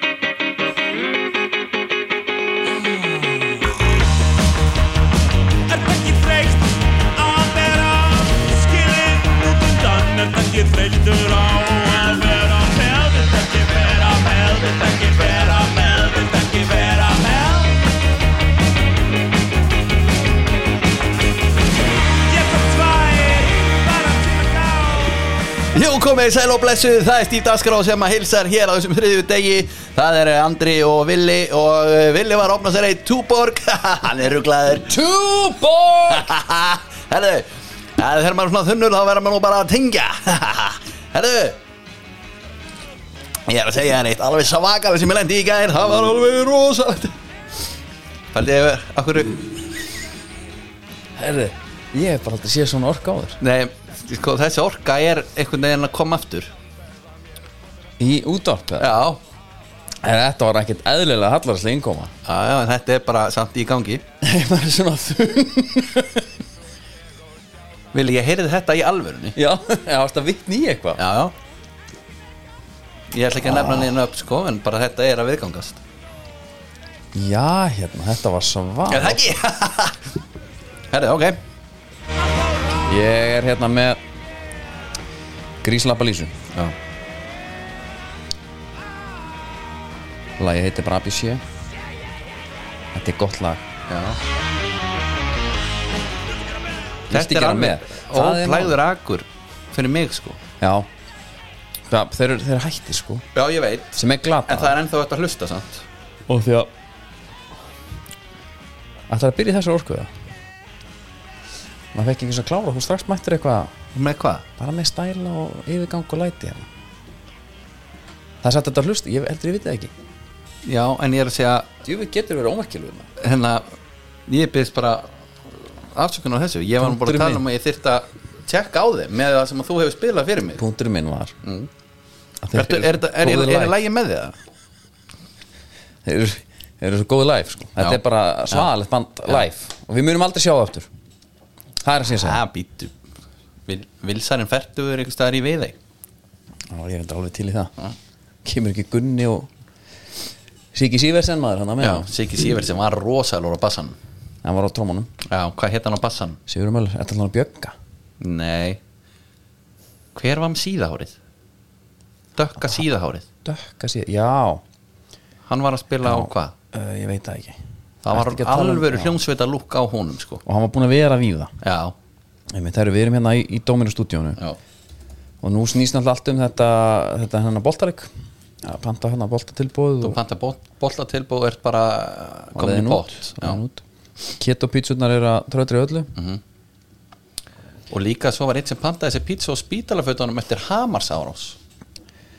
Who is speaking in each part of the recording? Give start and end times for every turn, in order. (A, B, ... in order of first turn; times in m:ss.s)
0:02.9-0:03.4 A
0:05.7-0:17.8 A
0:22.1-0:25.4 A
0:25.7-0:35.0 B
0:34.9-0:36.3 C
0:36.1-0:41.6 B
0:43.5-0:47.2 B
0:48.3-0:49.6 B
0:51.2-0:53.4 C
0:53.4-0:56.5 B
0:58.0-0:58.9 C
0:58.8-0:59.2 B
1:00.0-1:02.1 C
1:02.2-1:04.0 B
1:04.2-1:06.3 C
1:07.9-1:09.4 B
1:09.4-1:11.0 C
1:11.0-1:11.3 B
1:13.1-1:15.8 B
1:13.4-1:13.9 C
1:17.1-1:19.4 C
1:18.9-1:20.1 B
1:20.9-1:21.4 B
1:22.8-1:24.0 C
1:25.6-1:26.3 C
1:30.4-1:31.4 C
1:32.9-1:33.6 C
1:33.9-1:34.2 B
1:37.1-1:38.8 C
1:37.1-1:40.4 B
1:40.6-1:40.9 C
1:41.9-1:43.2 C
1:43.3-1:45.8 B
1:43.9-1:44.8 C
1:46.3-1:46.7 C
1:49.1-1:50.1 C
1:51.9-1:53.7 C
1:53.9-1:54.4 B
1:54.6-1:56.7 C
1:58.4-1:59.9 C
2:00.6-2:01.7 B
2:01.8-2:03.1 C
2:03.2-2:03.7 B
2:04.3-2:05.1 B
2:05.9-2:10.6 B
2:06.8-2:07.4 C
2:10.6-2:11.4 C
2:11.4-2:11.7 B
2:12.4-2:13.8 C
2:12.5-2:14.4 B
2:16.0-2:20.9 C
2:17.8-2:18.7 B
2:21.8-2:22.4 C
2:22.2-2:22.9 B
2:23.7-2:25.8 B
2:26.7-2:27.7 C
2:28.4-2:29.5 C
2:30.7-2:32.1 C
2:31.8-2:34.0 B
2:34.4-2:35.1 C
2:35.2-2:36.4 B
2:36.5-2:37.7 C
2:38.2-2:38.8 B
2:40.1-2:41.2 B
2:42.4-2:43.2 B
2:43.4-2:44.6 C
2:45.5-2:46.5 B
2:46.0-2:47.6 C
2:48.0-2:50.4 B
2:48.1-2:49.2 C
2:50.4-2:51.5 C
2:51.6-2:51.9 B
2:52.5-2:54.4 C
2:55.4-2:58.1 C
2:58.6-3:00.2 C
3:00.0-3:03.6 B
3:02.5-3:03.8 C
3:04.4-3:06.1 C
3:06.1-3:06.4 B
3:07.9-3:11.6 B